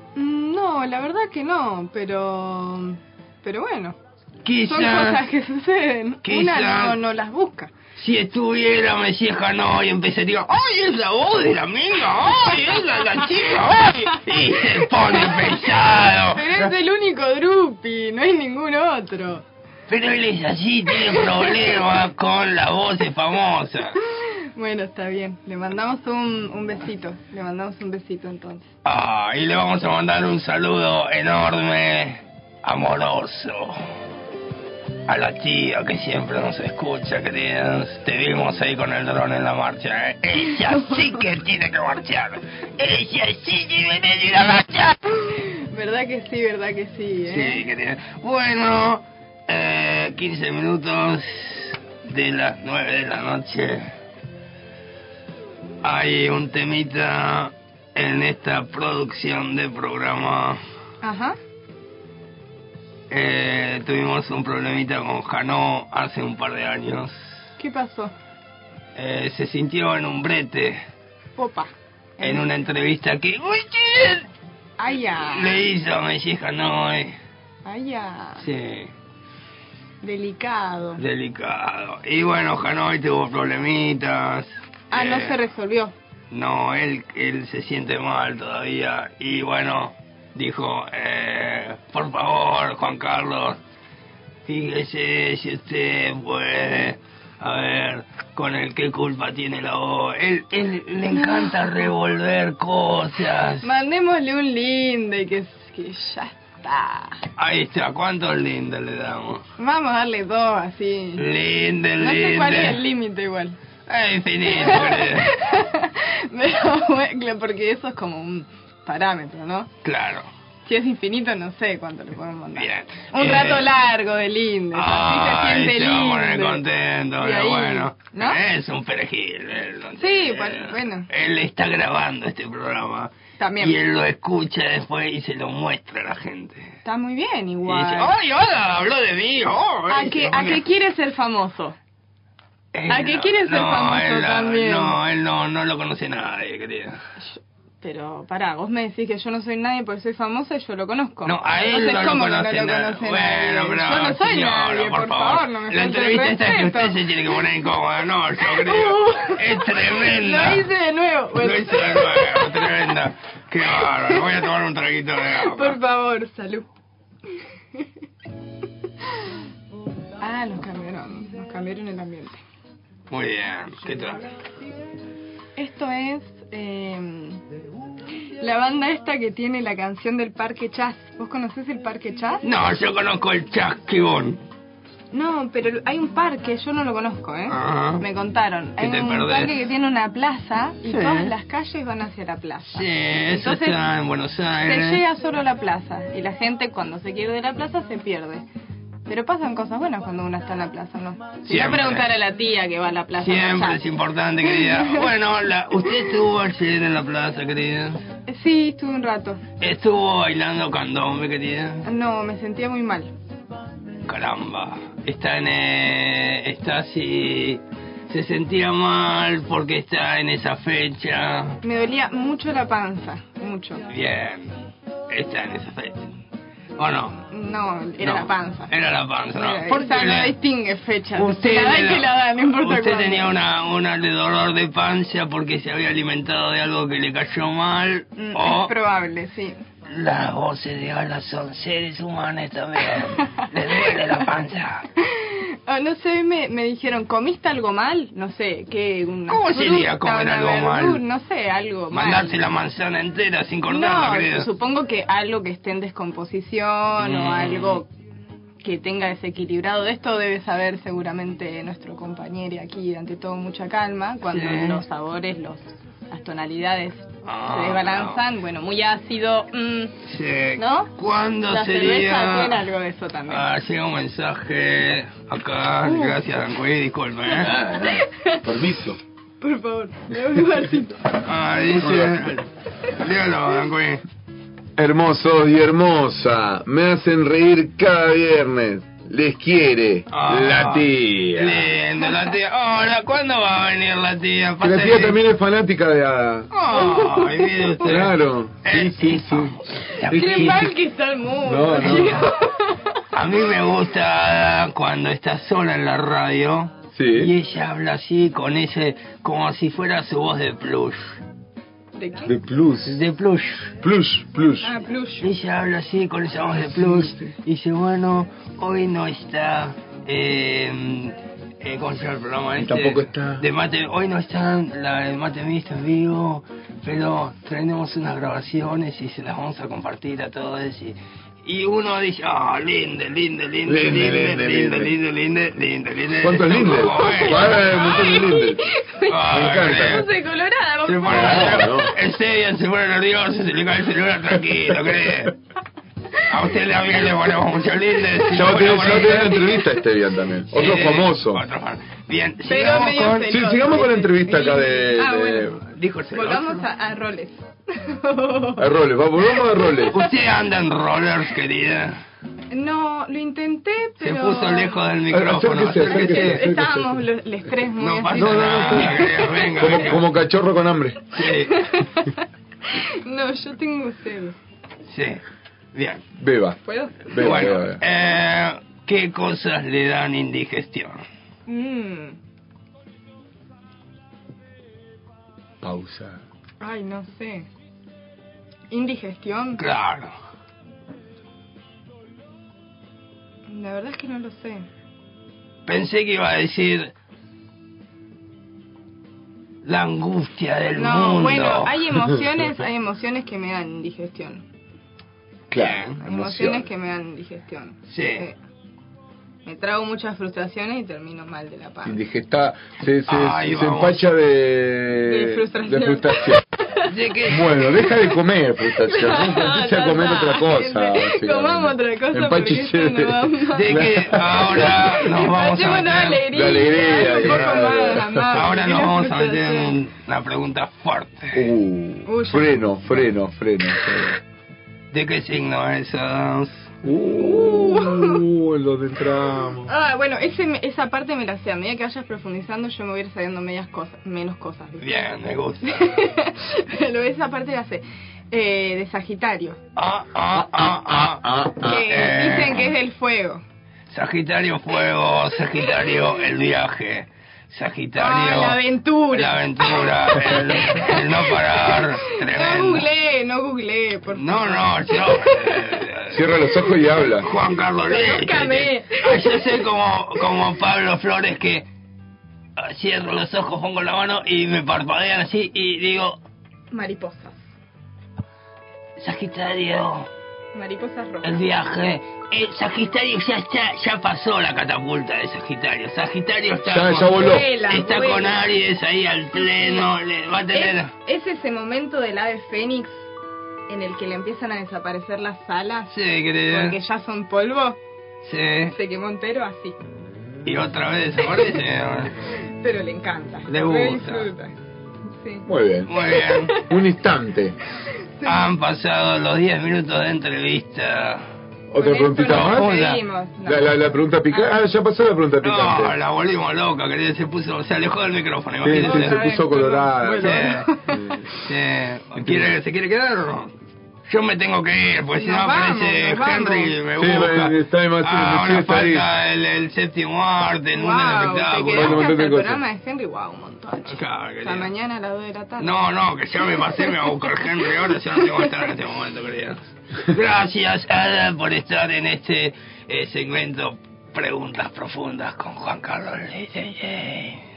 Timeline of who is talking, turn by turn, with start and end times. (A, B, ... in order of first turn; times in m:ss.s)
0:00.2-0:04.0 A
0:04.4-0:05.2 B
0:04.6-0:07.7 A
0:06.2-0:07.0 B
0:08.0-0:16.7 B
0:14.1-0:15.8 A
0:16.3-0:19.4 A
0:19.9-0:24.0 B
0:20.9-0:21.8 A
0:24.6-0:28.7 A
0:28.8-0:33.8 B
0:35.1-0:45.0 B
0:40.4-0:41.2 A
0:45.7-0:47.6 A
0:47.3-0:53.8 B
0:55.8-1:00.6 B
1:01.0-1:01.4 A
1:03.1-1:07.4 B
1:07.6-1:08.1 A
1:09.0-1:10.8 B
1:11.4-1:12.5 A
1:12.2-1:14.3 B
1:14.8-1:15.6 A
1:15.2-1:17.2 B
1:17.6-1:18.5 A
1:18.4-1:18.9 B
1:20.0-1:21.0 A
1:21.0-1:25.4 B
1:24.9-1:25.9 A
1:26.3-1:33.6 B
1:34.4-1:43.7 B
1:41.1-1:41.5 A
1:43.6-1:47.2 A
1:47.4-1:49.4 B
1:49.6-1:51.3 A
1:51.2-1:52.8 B
1:52.0-1:53.6 A
1:53.9-1:55.3 B
1:54.4-1:59.7 A
1:59.8-2:00.3 B
2:00.6-2:06.6 A
2:02.6-2:03.7 B
2:04.7-2:16.7 B
2:07.2-2:08.4 A
2:10.0-2:11.1 A
2:13.4-2:13.8 A
2:16.8-2:18.2 A
2:17.7-2:20.6 B
2:19.9-2:21.8 A
2:22.7-2:27.0 B
2:22.9-2:25.0 A
2:27.8-2:37.7 A
2:31.2-2:40.7 B
2:38.4-2:42.9 A
2:41.4-2:45.8 B
2:43.7-2:44.5 A
2:45.2-2:46.7 A
2:50.2-2:52.4 A
2:53.1-2:54.3 B
2:55.6-2:57.4 A
2:58.4-3:02.4 A
3:02.4-3:04.4 B
3:05.1-3:13.9 A
3:07.5-3:08.0 B
3:08.8-3:09.5 B
3:10.9-3:11.3 B
3:12.7-3:15.0 B
3:14.6-3:18.4 A
3:19.1-3:25.1 A
3:21.5-3:22.1 B
3:23.2-3:28.0 B
3:25.7-3:26.1 A
3:28.3-3:29.4 A
3:29.6-3:31.8 B
3:31.8-3:33.1 A
3:34.1-3:41.6 B
3:41.6-3:43.8 A
3:43.9-3:44.6 B
3:45.1-3:46.1 B
3:46.8-3:47.2 B
3:47.3-3:48.8 A
3:48.0-3:50.4 B
3:49.3-3:53.3 A
3:51.2-3:58.7 B
3:58.2-3:59.6 A
3:59.9-4:04.9 B
4:02.9-4:04.3 A
4:05.7-4:12.6 A
4:09.3-4:11.0 B
4:11.9-4:14.5 B
4:13.7-4:17.9 A
4:17.0-4:17.8 B
4:18.6-4:30.0 A
4:24.3-4:24.8 B
4:27.2-4:28.2 B
4:30.0-4:32.6 B
4:30.6-4:30.9 A
4:31.5-4:33.5 A
4:33.3-4:37.9 B
4:35.8-4:36.2 A
4:37.3-4:38.5 A
4:38.4-4:39.0 C
4:39.4-4:41.0 A
4:41.3-4:42.5 B
4:41.6-4:42.3 C
4:43.0-4:44.0 B
4:44.8-4:51.7 C
4:50.1-4:55.2 B
4:54.6-4:56.5 C
4:56.5-5:00.7 B
4:56.6-4:57.9 A
4:57.8-4:59.6 C
5:00.1-5:00.8 C
5:00.1-5:02.4 A
5:01.4-5:02.3 C
5:01.7-5:02.2 B
5:03.1-5:11.2 B
5:07.0-5:07.3 C
5:12.0-5:12.4 A
5:12.3-5:13.0 C
5:12.8-5:13.7 B
5:13.8-5:14.8 C
5:14.6-5:15.3 A
5:15.2-5:38.2 B
5:16.6-5:17.3 C
5:22.6-5:23.4 C
5:33.7-5:34.9 C
5:36.2-5:38.6 C
5:36.9-5:41.8 A
5:39.1-5:40.1 B
5:39.3-5:40.1 C
5:40.8-5:45.3 B
5:41.0-5:41.9 C
5:46.3-5:49.5 B
5:48.3-5:51.4 C
5:50.5-5:53.3 B
5:52.4-5:59.5 A
5:53.2-5:55.6 C
5:55.6-5:56.6 B
5:58.6-6:00.0 C
5:59.9-6:02.0 B
6:02.5-6:04.8 A
6:04.0-6:06.4 B
6:05.1-6:07.0 C
6:05.8-6:09.3 A
6:07.8-6:10.0 B
6:08.1-6:11.1 C
6:11.2-6:11.6 B
6:11.2-6:12.1 A
6:13.1-6:14.4 A
6:14.8-6:15.2 B
6:15.7-6:16.0 B
6:16.2-6:17.8 C
6:16.6-6:17.4 A
6:17.1-6:21.0 B
6:21.5-6:22.2 A
6:25.6-6:26.2 C
6:26.6-6:27.5 A
6:28.7-6:29.6 A
6:29.6-6:30.1 B
6:33.5-6:34.7 A
6:35.7-6:36.9 B
6:39.6-6:41.7 B
6:40.8-6:44.4 A
6:45.5-6:46.7 C
6:45.6-6:46.0 B
6:46.0-6:48.4 A
6:47.9-6:48.3 B
6:49.4-6:52.0 A
6:51.8-6:56.4 C
6:53.1-6:54.0 B
6:55.0-6:56.9 A
6:56.9-6:57.6 B
6:57.3-7:04.9 C
6:58.8-7:03.8 A
7:03.6-7:06.3 B
7:04.6-7:09.8 A
7:06.3-7:08.4 C
7:07.2-7:07.6 B
7:08.3-7:11.4 B
7:11.3-7:14.2 C
7:12.1-7:13.1 A
7:14.9-7:16.7 B
7:16.8-7:19.7 C
7:17.2-7:18.2 A
7:19.7-7:29.6 A
7:24.8-7:25.8 B
7:29.8-7:32.7 B
7:30.4-7:31.7 C
7:31.6-7:33.4 A
7:33.9-7:42.9 B
7:38.0-7:45.9 A
7:44.2-7:46.3 B
7:46.1-7:47.3 C
7:47.2-7:51.7 B
7:47.4-7:50.4 A
7:52.6-7:56.2 B
7:56.7-7:57.5 A
7:59.0-8:00.1 B
8:00.5-8:01.4 A
8:01.2-8:10.9 B
8:06.7-8:07.5 C
8:07.2-8:08.6 A
8:09.3-8:09.9 A
8:10.5-8:13.1 A
8:13.7-8:17.8 A
8:15.9-8:16.8 B
8:18.2-8:18.8 B
8:18.7-8:19.8 A
8:20.4-8:22.1 B
8:21.2-8:21.6 A
8:22.6-8:24.5 A
8:23.5-8:24.3 B
8:25.2-8:26.7 A
8:25.5-8:25.9 C
8:25.9-8:26.6 B
8:26.6-8:27.6 C
8:28.2-8:28.6 A
8:28.2-8:31.2 B
8:31.7-8:32.8 C
8:31.8-8:34.5 A
8:32.2-8:33.0 B
8:33.4-8:35.9 C
8:35.4-8:39.3 B
8:38.6-8:41.3 C
8:38.7-8:41.0 A
8:40.2-8:40.7 B
8:41.4-8:43.5 B
8:42.2-8:42.5 C
8:44.1-8:52.1 B
8:45.1-8:46.8 A
8:47.0-8:49.1 C
8:50.7-8:58.7 A
8:51.7-8:52.6 C
8:53.9-8:54.7 B
8:55.6-9:07.4 B